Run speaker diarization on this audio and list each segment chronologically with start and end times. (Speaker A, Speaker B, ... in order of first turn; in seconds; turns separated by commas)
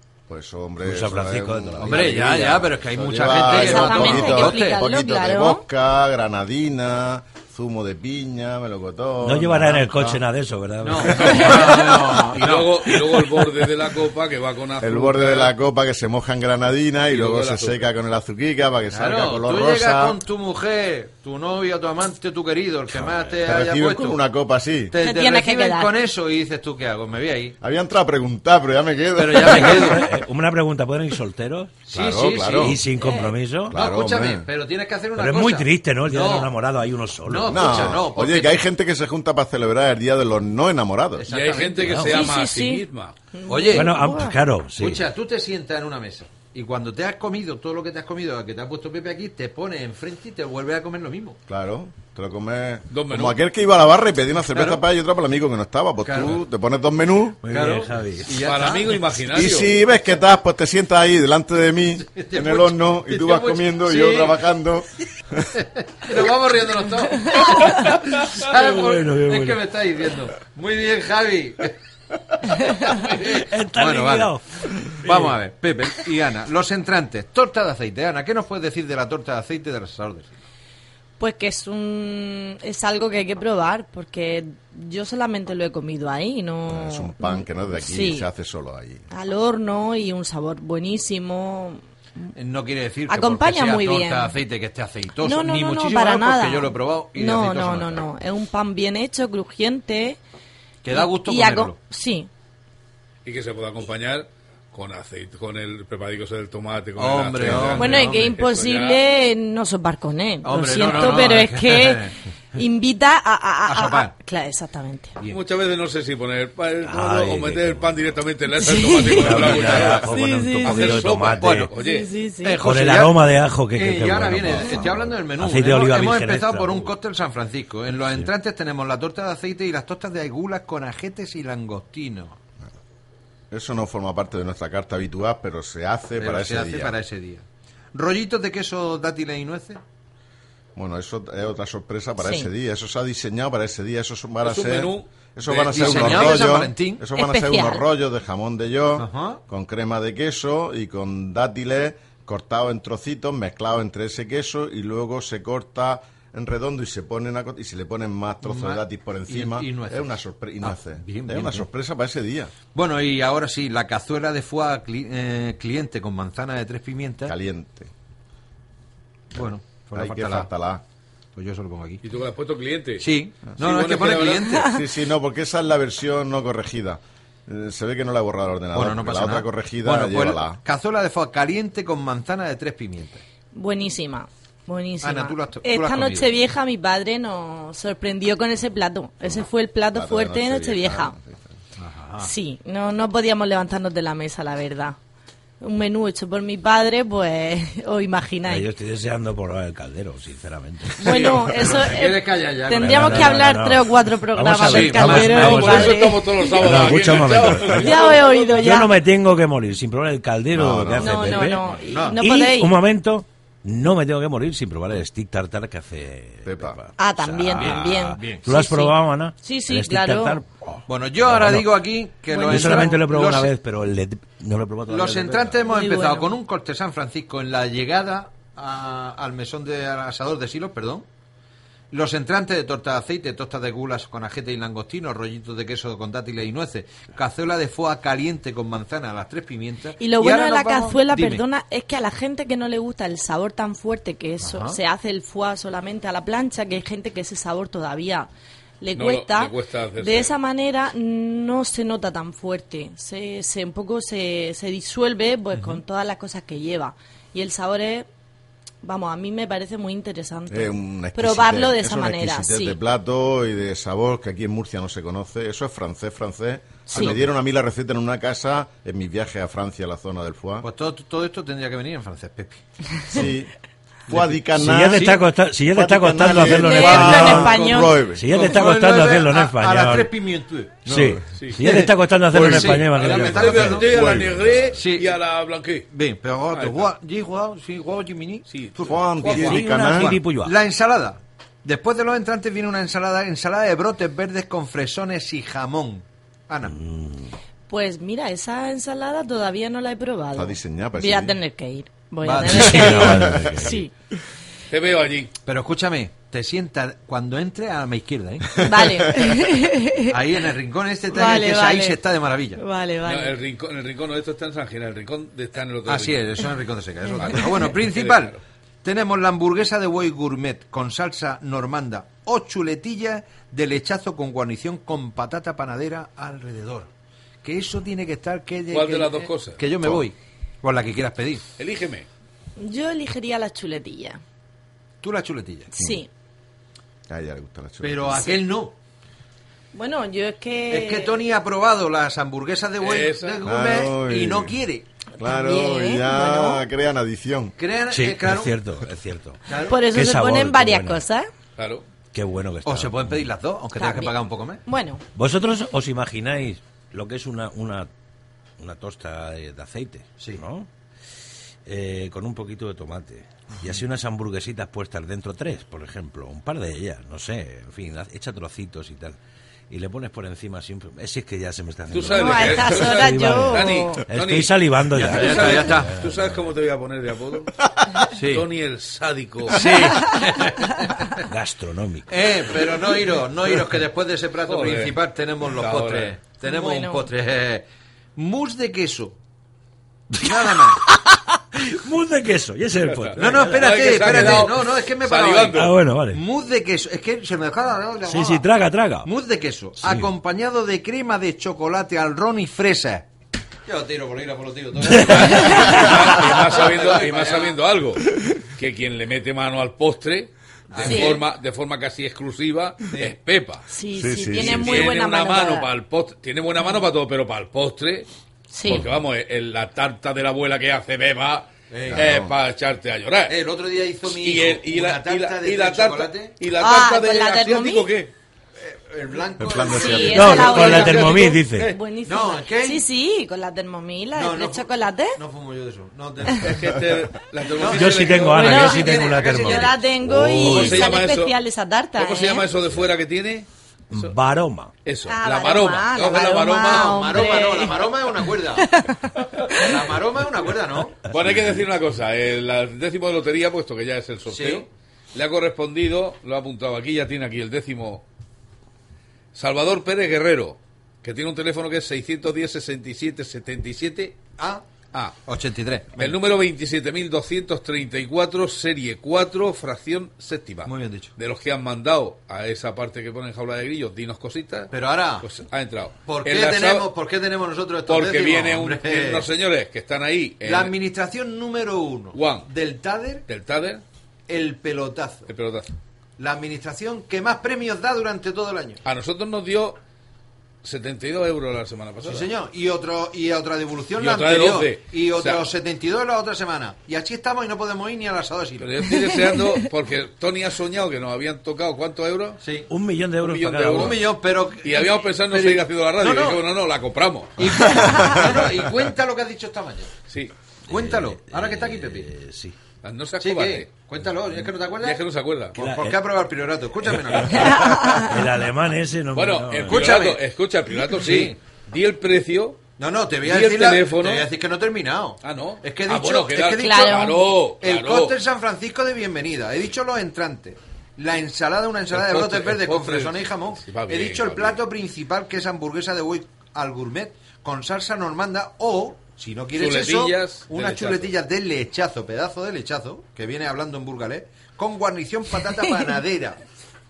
Speaker A: 0.3-10.2, Speaker B: 0.8-2.6, Speaker C: 1.8-4.8, Speaker D: 3.3-5.6, Speaker B: 9.2-12.2, Speaker C: 10.8-12.8, Speaker E: 11.1-15.5, Speaker A: 14.8-20.2, Speaker E: 17.1-17.8, Speaker C: 18.9-24.2, Speaker A: 23.3-24.9, Speaker C: 24.9-27.5, Speaker D: 24.9-25.9, Speaker A: 27.6-30.0, Speaker C: 29.1-30.0, Speaker B: 29.4-31.9, Speaker C: 31.9-32.8, Speaker A: 31.9-32.8, Speaker B: 32.5-33.9, Speaker D: 33.0-33.4, Speaker A: 33.7-34.5, Speaker C: 33.7-36.5, Speaker B: 35.1-38.0, Speaker C: 37.3-38.6, Speaker A: 37.5-41.3, Speaker C: 41.1-42.0, Speaker E: 41.3-43.1, Speaker B: 41.8-42.3, Speaker D: 42.1-44.4, Speaker C: 43.5-44.0, Speaker B: 43.7-45.1, Speaker C: 44.8-51.4, Speaker A: 51.5-57.5, Speaker E: 52.9-53.4, Speaker C: 56.0-56.4, Speaker B: 57.4-58.5, Speaker C: 57.5-59.2, Speaker E: 58.4-59.8, Speaker A: 59.2-65.6, Speaker C: 62.1-64.4, Speaker C: 65.8-71.7, Speaker B: 68.4-69.6, Speaker D: 72.5-73.0, Speaker C: 73.1-74.4, Speaker B: 73.2-75.3, Speaker C: 75.0-80.3, Speaker D: 81.2-88.3, Speaker A: 86.7-89.1, Speaker D: 89.1-92.3, Speaker C: 92.3-98.0, Speaker D: 93.1-94.4, Speaker D: 95.2-100.2, Speaker C: 100.8-101.8, Speaker D: 100.9-102.3, Speaker E: 103.2-109.0, Speaker C: 107.0-108.3, Speaker D: 107.8-115.2, Speaker C: 110.4-112.1, Speaker C: 113.6-114.1, Speaker E: 115.2-122.1, Speaker B: 116.8-118.2, Speaker D: 118.5-119.3, Speaker B: 119.2-121.7, Speaker C: 119.4-120.0, Speaker D: 120.0-120.9, Speaker C: 121.4-121.7, Speaker D: 121.7-122.6, Speaker C: 122.4-132.4, Speaker B: 122.6-127.0, Speaker B: 128.0-128.3, Speaker A: 133.5-137.0, Speaker C: 136.2-139.8, Speaker A: 140.8-162.5, Speaker D: 142.2-142.5, Speaker E: 144.4-146.4, Speaker C: 145.7-147.1, Speaker D: 147.1-147.8, Speaker C: 148.9-149.4, Speaker C: 158.4-161.7, Speaker C: 162.7-167.3, Speaker A: 167.3-167.9, Speaker C: 169.3-170.5, Speaker A: 169.3-170.8, Speaker C: 171.3-172.0, Speaker E: 172.0-174.6, Speaker C: 173.0-174.7, Speaker D: 174.5-174.8, Speaker A: 174.7-180.6, Speaker C: 178.7-183.2, Speaker D: 183.5-191.2, Speaker C: 185.0-186.3, Speaker A: 189.2-191.5, Speaker C: 191.8-192.3, Speaker D: 192.2-195.0, Speaker D: 195.6-198.7, Speaker B: 198.4-201.2, Speaker D: 201.0-206.7, Speaker C: 201.1-203.4, Speaker B: 202.7-225.7, Speaker C: 204.7-205.1, Speaker E: 204.7-208.6, Speaker D: 207.7-208.9, Speaker A: 210.5-211.3, Speaker D: 210.9-212.8, Speaker C: 211.7-212.2, Speaker A: 216.4-216.8, Speaker D: 217.0-220.4, Speaker C: 217.6-218.5, Speaker C: 220.9-223.5, Speaker D: 222.3-222.9, Speaker C: 224.9-231.1, Speaker D: 225.7-226.3, Speaker C: 231.9-241.4, Speaker D: 240.0-248.3, Speaker C: 244.4-244.8, Speaker D: 248.8-258.1, Speaker E: 248.9-250.3, Speaker C: 255.5-255.8, Speaker D: 258.8-262.8, Speaker A: 260.5-270.7, Speaker D: 266.9-267.2, Speaker C: 267.0-267.3, Speaker C: 270.6-272.6, Speaker A: 273.1-273.5, Speaker A: 274.1-275.2, Speaker B: 274.1-280.1, Speaker C: 274.7-275.2, Speaker A: 275.7-278.2, Speaker D: 276.4-278.0, Speaker C: 276.9-285.1, Speaker B: 280.8-284.7, Speaker E: 281.3-281.9, Speaker E: 282.4-285.9, Speaker A: 283.9-284.5, Speaker C: 285.9-296.7, Speaker E: 286.5-286.9, Speaker E: 288.5-289.6, Speaker A: 288.8-290.2, Speaker B: 289.3-290.6, Speaker B: 296.6-297.3, Speaker D: 297.7-303.9, Speaker A: 300.3-301.4, Speaker C: 302.2-303.1, Speaker B: 302.5-303.8, Speaker A: 302.6-303.7, Speaker E: 304.7-305.3, Speaker C: 305.4-308.6, Speaker A: 308.6-309.2, Speaker D: 308.6-310.2, Speaker C: 310.1-312.6, Speaker D: 311.1-312.0, Speaker D: 312.6-313.4, Speaker E: 313.0-316.4, Speaker C: 315.8-326.9, Speaker E: 317.1-318.4, Speaker C: 327.4-331.4, Speaker E: 328.7-329.6, Speaker E: 331.6-332.1, Speaker D: 332.6-334.2, Speaker C: 335.0-335.7, Speaker D: 335.7-336.1, Speaker A: 335.8-336.0, Speaker A: 337.1-338.4, Speaker C: 337.8-338.7, Speaker D: 339.7-341.2, Speaker C: 340.7-344.9, Speaker E: 342.8-343.4, Speaker A: 343.4-344.6, Speaker D: 345.2-346.6, Speaker A: 345.2-347.5, Speaker C: 347.6-348.6, Speaker B: 347.9-351.1, Speaker C: 349.4-349.8, Speaker D: 349.7-351.3, Speaker E: 351.6-351.9, Speaker B: 352.1-353.3, Speaker C: 352.6-354.6, Speaker D: 353.8-355.0, Speaker B: 355.1-357.9, Speaker B: 358.6-360.7, Speaker B: 361.6-369.2, Speaker B: 369.7-376.5, Speaker E: 371.9-377.5, Speaker D: 372.1-374.0, Speaker C: 374.9-375.9, Speaker C: 378.1-378.5, Speaker E: 378.2-380.1, Speaker C: 379.5-380.9, Speaker B: 381.2-382.6, Speaker C: 382.1-387.6, Speaker E: 384.4-386.1, Speaker D: 386.4-387.1, Speaker C: 388.1-389.2, Speaker B: 390.1-394.4, Speaker C: 390.2-390.8, Speaker E: 392.8-395.7, Speaker C: 393.2-398.5, Speaker B: 395.5-396.2, Speaker B: 398.0-399.1, Speaker C: 399.0-403.1, Speaker B: 399.8-400.1, Speaker C: 403.6-407.6, Speaker B: 404.8-405.4, Speaker E: 405.1-413.6, Speaker C: 410.7-411.2, Speaker D: 410.8-411.2, Speaker C: 412.9-413.1, Speaker D: 413.7-415.7, Speaker A: 413.9-414.9, Speaker E: 414.3-418.1, Speaker D: 418.5-418.9, Speaker E: 418.6-423.3, Speaker C: 421.7-422.1, Speaker A: 421.9-422.3, Speaker C: 423.3-426.4, Speaker E: 424.0-428.1, Speaker D: 426.5-427.9, Speaker C: 428.6-431.0, Speaker A: 429.4-430.7, Speaker D: 429.8-435.2, Speaker B: 430.1-431.8, Speaker E: 430.3-431.8, Speaker C: 432.0-432.9, Speaker C: 434.1-436.8, Speaker E: 436.4-439.1, Speaker C: 437.5-439.8, Speaker B: 437.6-440.9, Speaker D: 438.3-442.5, Speaker E: 440.2-441.4, Speaker E: 441.9-444.1, Speaker B: 443.9-444.7, Speaker E: 444.8-446.9, Speaker D: 445.1-448.9, Speaker C: 446.6-448.7, Speaker E: 449.2-449.6, Speaker C: 449.6-451.0, Speaker E: 451.1-458.0, Speaker B: 451.1-451.6, Speaker C: 454.3-454.7, Speaker E: 459.3-464.2, Speaker C: 464.4-464.6, Speaker C: 465.2-466.2, Speaker E: 465.9-476.9, Speaker C: 470.6-471.1, Speaker C: 474.7-475.2, Speaker C: 476.1-479.3, Speaker E: 477.9-480.7, Speaker C: 480.4-483.2, Speaker E: 482.1-482.5, Speaker E: 483.3-483.8, Speaker C: 484.3-485.3, Speaker E: 485.3-485.7, Speaker C: 486.2-488.8, Speaker E: 488.8-489.8, Speaker E: 490.6-492.3, Speaker C: 492.0-498.8, Speaker E: 494.0-495.4, Speaker E: 498.6-502.4, Speaker D: 499.0-499.6, Speaker C: 502.4-502.7, Speaker B: 502.7-504.2, Speaker E: 503.2-504.1, Speaker C: 503.7-506.4, Speaker E: 504.6-507.6, Speaker C: 507.4-509.9, Speaker A: 507.7-508.1, Speaker D: 507.8-508.1, Speaker E: 510.1-510.3, Speaker B: 510.7-512.6, Speaker C: 510.7-512.1, Speaker E: 512.8-513.7, Speaker C: 513.2-515.0, Speaker E: 514.8-515.5, Speaker C: 515.5-517.8, Speaker B: 515.5-520.0, Speaker D: 517.5-518.1, Speaker E: 519.1-522.6, Speaker C: 519.7-520.2, Speaker C: 520.9-521.4, Speaker C: 522.8-546.4, Speaker E: 523.2-524.3, Speaker E: 525.2-528.1, Speaker D: 526.4-527.2, Speaker E: 531.9-534.6, Speaker E: 539.5-541.1